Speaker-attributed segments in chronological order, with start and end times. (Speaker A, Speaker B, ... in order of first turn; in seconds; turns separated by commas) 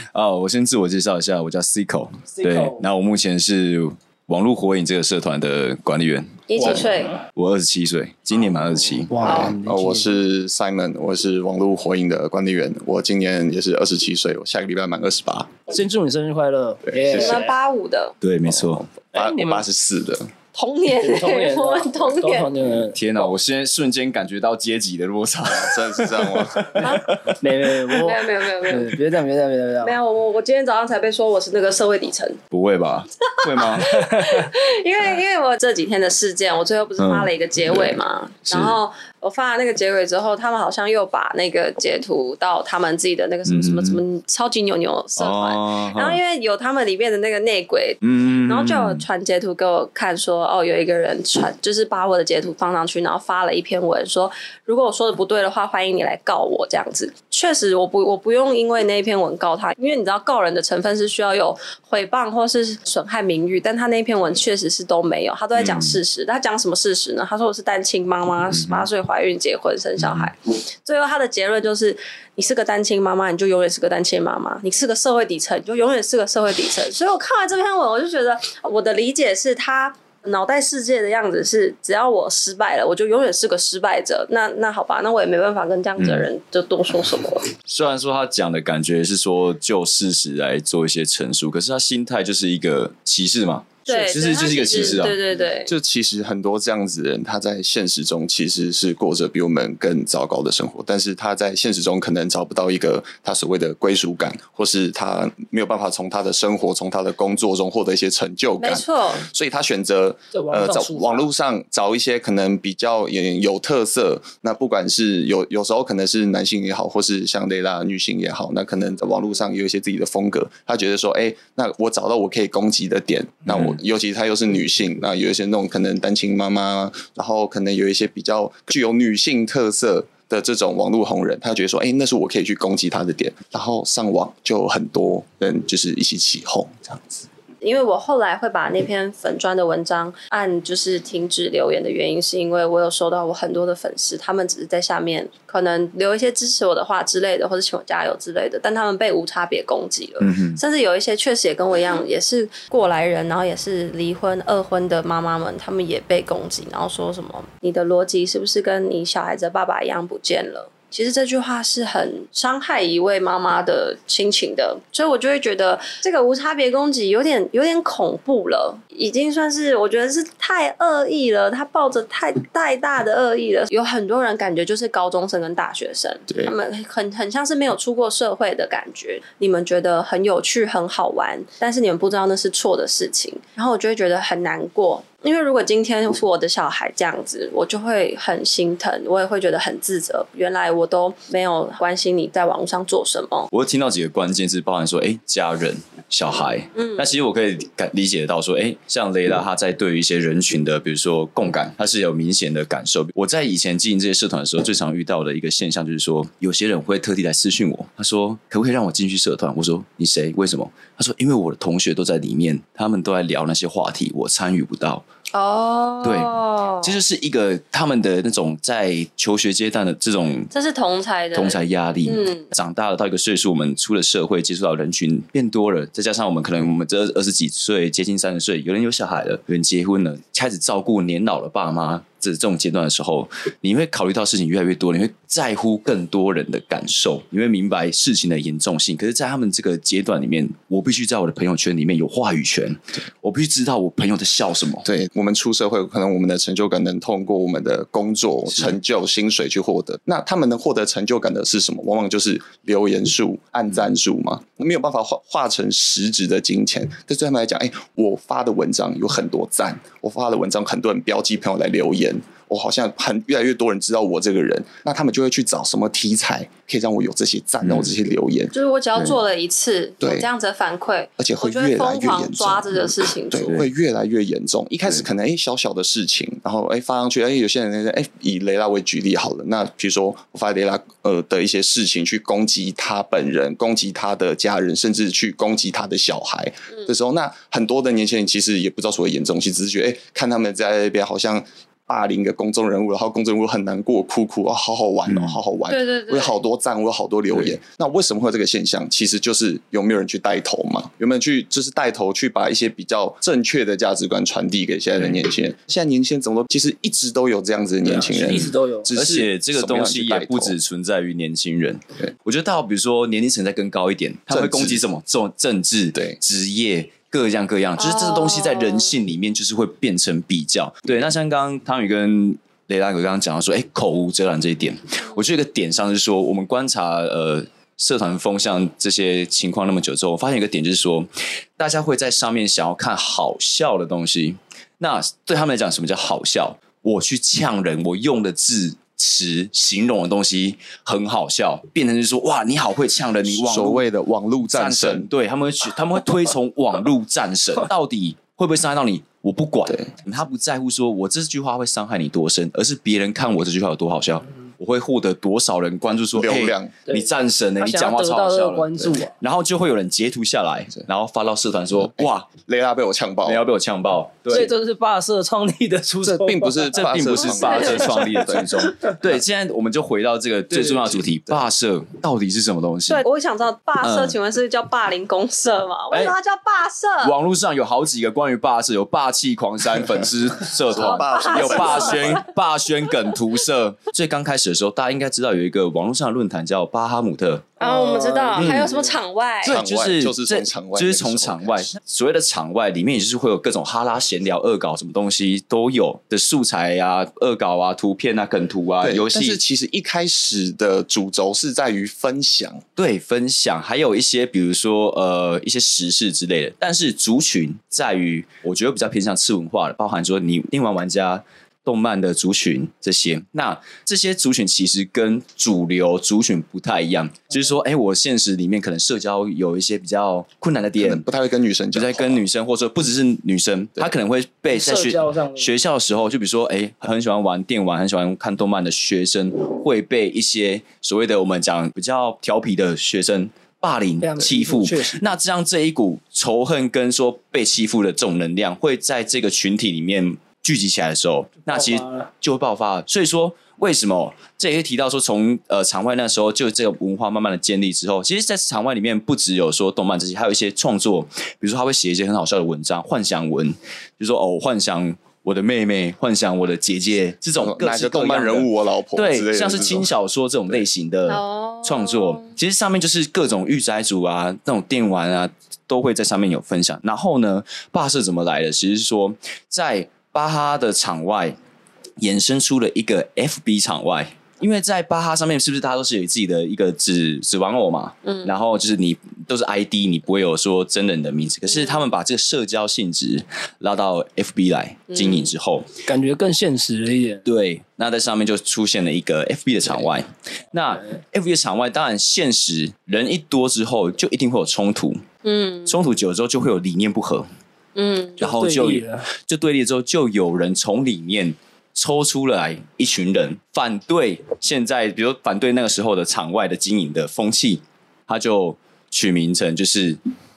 Speaker A: 0.1-6.7, Speaker B: 2.4-2.8, Speaker C: 6.5-7.2, Speaker A: 7.3-9.2, Speaker B: 9.1-10.1, Speaker C: 9.2-9.5, Speaker D: 9.2-15.5, Speaker B: 15.7-17.5, Speaker D: 16.8-17.4, Speaker C: 17.1-18.1, Speaker A: 18.2-18.9, Speaker D: 18.4-20.3, Speaker B: 19.1-19.6, Speaker C: 20.5-22.5, Speaker B: 21.0-23.3, Speaker A: 22.9-28.0, Speaker D: 25.5-26.9, Speaker B: 27.4-29.9, Speaker C: 28.0-28.9, Speaker C: 29.8-32.4, Speaker A: 32.5-34.1, Speaker C: 33.4-87.5, Speaker B: 34.2-34.4, Speaker A: 37.0-37.9, Speaker A: 38.5-38.8, Speaker A: 43.4-44.0, Speaker A: 45.2-46.2, Speaker A: 48.0-49.0, Speaker A: 65.6-66.0, Speaker A: 68.5-68.9, Speaker A: 70.0-70.3, Speaker A: 86.0-86.3, Speaker A: 87.6-95.2, Speaker C: 93.9-95.7, Speaker D: 95.7-137.2, Speaker C: 108.6-109.2, Speaker B: 110.3-111.3, Speaker A: 123.5-123.8, Speaker C: 137.6-193.5, Speaker A: 150.2-150.6, Speaker A: 193.5-215.0, Speaker C: 196.8-197.1, Speaker C: 215.3-216.9, Speaker A: 216.0-220.5, Speaker C: 220.5-222.5, Speaker A: 221.3-244.9, Speaker D: 244.8-268.5, Speaker C: 268.5-273.5, Speaker D: 270.0-270.3, Speaker D: 271.2-310.6, Speaker A: 295.1-295.4, Speaker C: 295.7-296.4, Speaker B: 307.8-308.9, Speaker A: 308.9-343.8, Speaker D: 314.3-314.8, Speaker C: 317.8-318.9, Speaker D: 343.2-345.1, Speaker A: 344.5-362.3, Speaker D: 356.1-356.7, Speaker B: 357.6-359.1, Speaker D: 362.0-363.4, Speaker A: 363.2-364.5, Speaker B: 364.3-366.7, Speaker D: 366.0-369.1, Speaker A: 366.7-373.0, Speaker C: 367.2-367.9, Speaker D: 370.5-371.4, Speaker C: 372.9-377.1, Speaker A: 373.8-374.1, Speaker A: 377.0-387.5, Speaker D: 380.6-382.2, Speaker C: 380.7-382.3, Speaker B: 387.6-388.9, Speaker C: 387.6-389.6, Speaker A: 388.4-388.7, Speaker A: 389.4-399.4, Speaker D: 389.4-391.7, Speaker D: 398.8-402.6, Speaker A: 402.8-421.1, Speaker D: 420.8-422.2, Speaker A: 421.7-471.4, Speaker B: 424.5-425.5, Speaker B: 434.0-435.0, Speaker B: 441.5-442.1, Speaker D: 457.4-459.9, Speaker C: 461.1-462.3, Speaker A: 472.0-485.7, Speaker C: 478.0-478.3, Speaker C: 481.5-481.9, Speaker C: 484.9-485.3, Speaker B: 485.9-487.2, Speaker A: 487.2-495.0, Speaker C: 495.2-495.8, Speaker A: 495.6-497.3, Speaker C: 497.7-498.2, Speaker B: 498.2-499.1, Speaker A: 498.2-510.0